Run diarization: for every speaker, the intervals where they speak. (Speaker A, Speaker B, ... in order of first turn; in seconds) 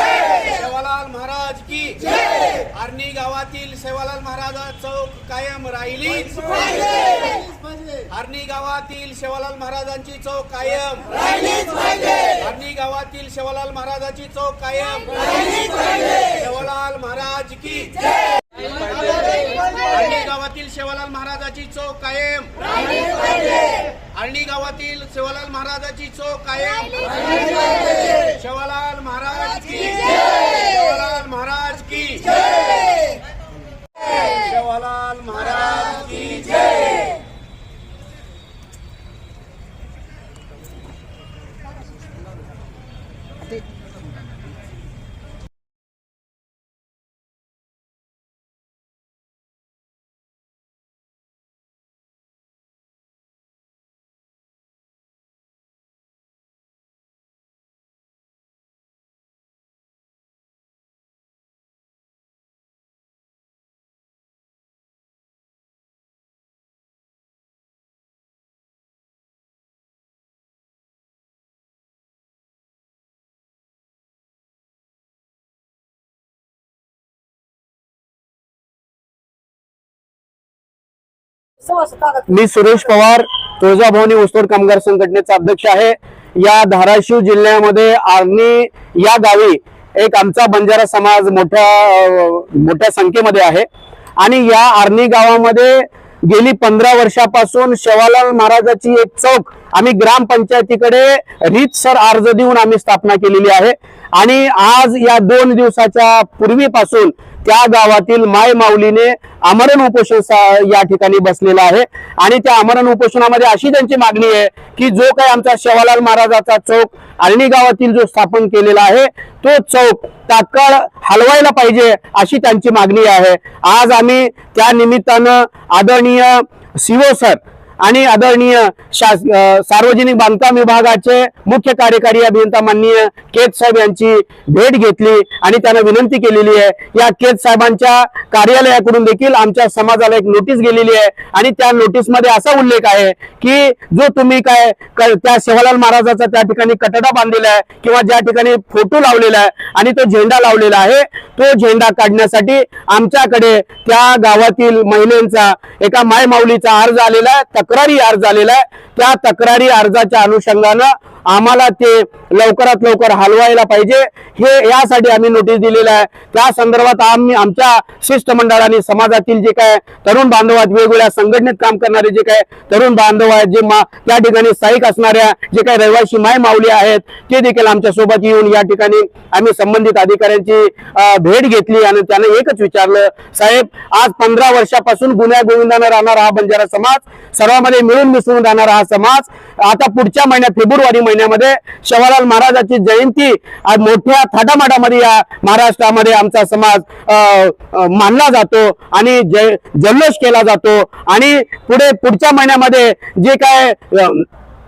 Speaker A: 0.2-6.8, 8.2-11.3, 12.3-17.9, 19.1-22.5, 23.0-23.4, 24.2-32.3, 34.4-36.5
Speaker B: 0.5-2.0, 2.8-6.0, 8.2-10.7, 12.5-14.5, 16.5-17.6, 20.3-22.3, 24.4-26.2, 28.5-29.3, 31.0-31.8, 34.6-35.2, 82.0-93.7, 94.2-204.2